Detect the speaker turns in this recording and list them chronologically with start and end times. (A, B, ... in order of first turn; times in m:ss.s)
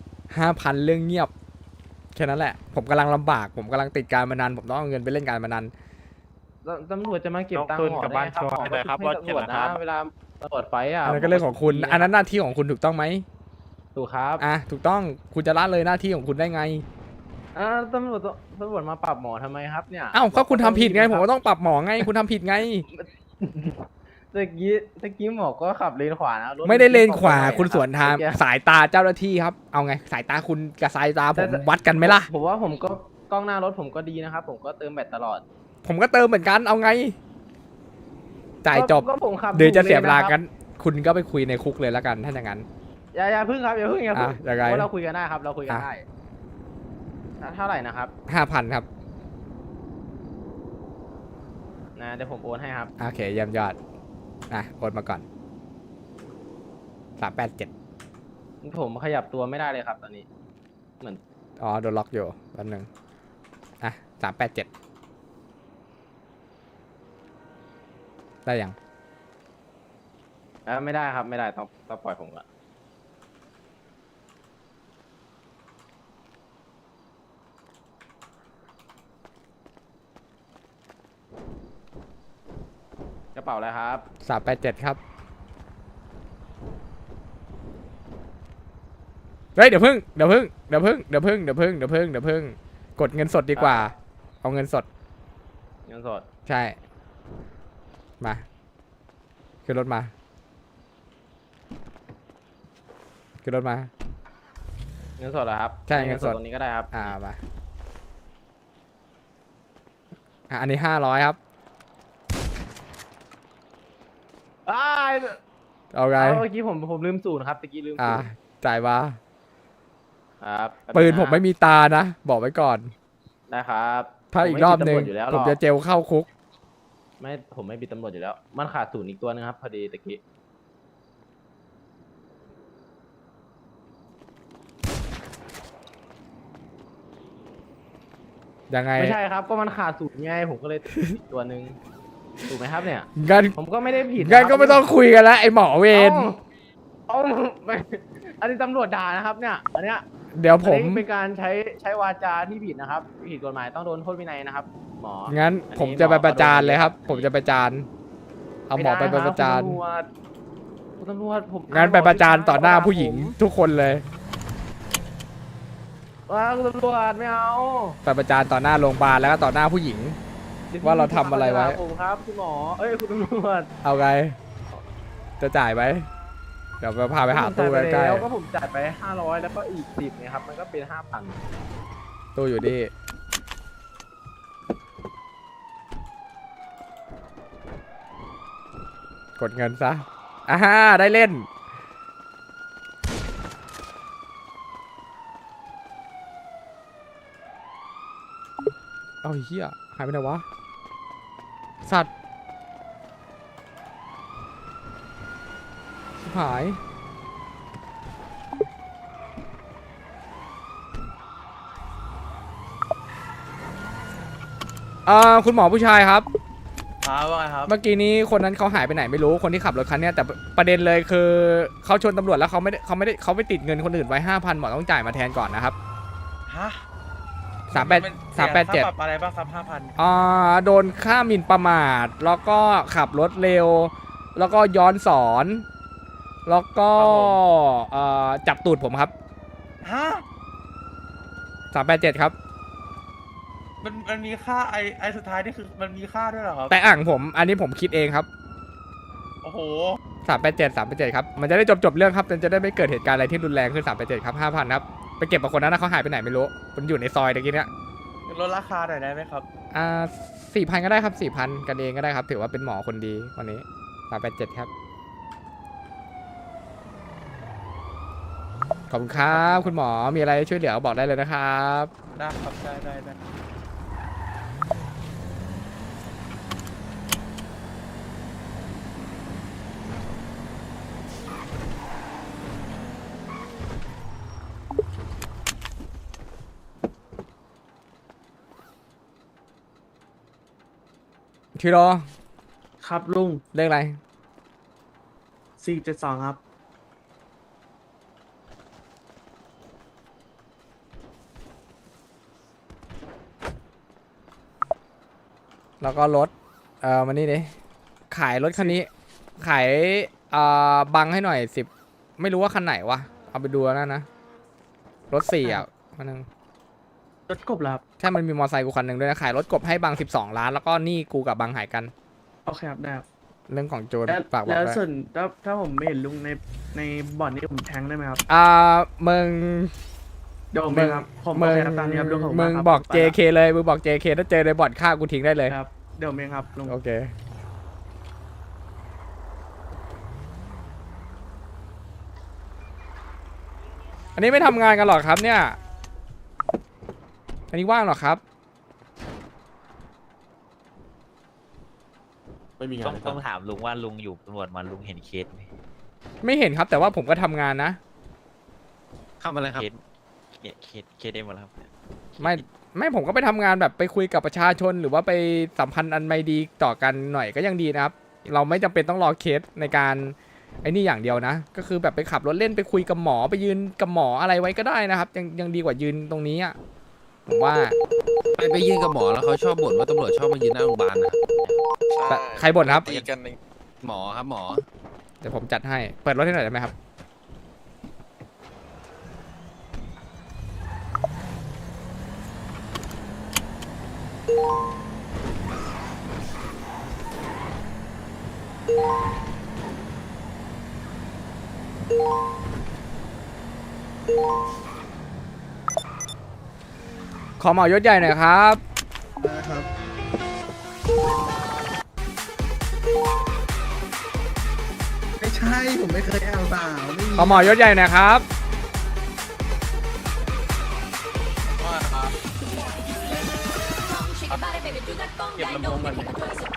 0:00.3-0:01.3 A
0:02.1-0:05.7 A
0:06.6-0:12.1 B
0:08.7-0:09.7 C
0:11.0-0:13.2 A
0:13.9-0:14.4 B
0:14.4-0:16.8 A
0:17.5-0:21.2 B
0:20.1-0:22.8 A
0:22.9-0:28.4 B
0:26.6-0:32.3 A
0:31.4-0:35.4 B
0:35.8-0:37.2 A
0:38.6-0:42.6 A
0:38.7-0:40.4 B
0:43.1-0:46.0 B
0:44.1-0:44.9 A
0:47.4-0:48.1 B
0:48.3-0:48.9 A
0:52.0-0:52.9 B
0:53.0-0:53.8 A
0:54.5-0:55.2 A
0:57.2-0:57.7 A
0:58.6-1:00.2 B
1:01.6-1:02.9 A
1:03.8-1:04.7 A
1:08.4-1:08.8 A
1:10.6-1:12.4 B
1:23.3-1:24.0 B
1:24.2-1:25.0 A
1:29.6-1:34.8 A
1:33.6-1:33.9 B
1:35.9-1:36.2 B
1:36.4-1:36.8 A
1:39.6-1:40.1 A
1:43.4-1:43.9 A
1:45.2-1:47.1 B
1:45.9-1:46.4 A
1:46.9-1:47.4 A
1:50.5-1:51.4 A
1:54.6-1:55.4 B
1:55.9-1:56.4 A
1:56.2-1:58.3 B
1:58.0-1:59.2 A
2:00.4-2:01.4 B
2:00.9-2:02.9 A
2:03.5-2:05.6 B
2:04.3-2:06.3 A
2:07.2-2:10.2 B
2:18.7-2:19.2 A
2:19.0-2:21.8 B
2:22.5-2:24.9 B
2:23.2-2:23.6 A
2:24.2-2:26.3 A
2:25.9-2:26.4 B
2:27.1-2:30.0 B
2:30.3-2:31.0 A
2:30.6-2:37.3 B
2:35.3-2:37.9 A
2:38.7-2:39.8 A
2:38.7-2:40.0 B
2:41.0-2:43.4 B
2:41.7-2:44.0 A
2:46.3-2:48.0 B
2:48.0-2:50.2 A
2:50.7-2:53.7 B
2:50.8-2:51.8 A
2:53.8-2:54.4 A
2:55.4-2:56.1 A
2:56.8-2:58.3 A
2:57.3-3:01.4 B
3:02.3-3:02.9 A
3:09.4-3:11.5 A
3:19.2-3:20.4 A
3:21.8-3:22.1 A
3:26.2-3:26.8 A
3:35.0-3:36.3 A
3:37.0-3:37.7 D
3:37.7-3:45.8 A
3:46.5-3:46.8 D
3:47.7-3:48.9 A
3:47.7-3:49.9 D
3:50.0-3:55.6 A
3:56.4-3:59.1 A
3:57.0-3:57.4 D
3:59.8-4:00.2 D
4:01.7-4:02.3 A
4:03.8-4:06.7 D
4:06.7-4:08.3 A
4:09.4-4:10.0 D
4:10.2-4:17.7 A
4:18.2-4:19.4 D
4:19.7-4:24.7 A
4:28.9-4:31.9 A
4:29.1-4:29.7 D
4:32.1-4:33.2 D
4:51.6-4:52.1 A
4:52.8-4:53.4 E
4:53.5-4:54.0 A
4:55.6-4:56.4 E
5:05.8-5:07.5 A
5:08.1-5:08.9 A
5:09.4-5:14.0 A
5:15.1-5:16.2 A
5:17.3-5:17.8 E
5:18.0-5:21.9 A
5:22.4-5:23.0 E
5:23.5-5:24.8 A
5:24.1-5:28.2 E
5:28.3-5:29.7 A
5:30.5-5:33.1 E
5:30.7-5:35.6 A
5:35.5-5:36.7 E
5:36.7-5:37.1 A
5:44.2-5:45.6 A
5:47.5-5:48.2 A
5:52.8-5:55.5 C
5:56.2-5:57.8 A
5:59.2-5:59.6 F
5:59.5-5:59.8 C
6:00.4-6:02.4 C
6:02.2-6:16.6 A
6:17.3-6:17.8 A
6:18.3-6:21.3 F
6:22.0-6:22.3 D
6:22.1-6:23.1 A
6:22.6-6:24.6 F
6:25.2-6:26.7 A
6:47.4-6:48.6 A
6:49.2-6:49.7 G
6:55.2-6:57.5 G
6:57.2-6:58.2 A
7:01.6-7:02.2 D
7:04.2-7:06.3 D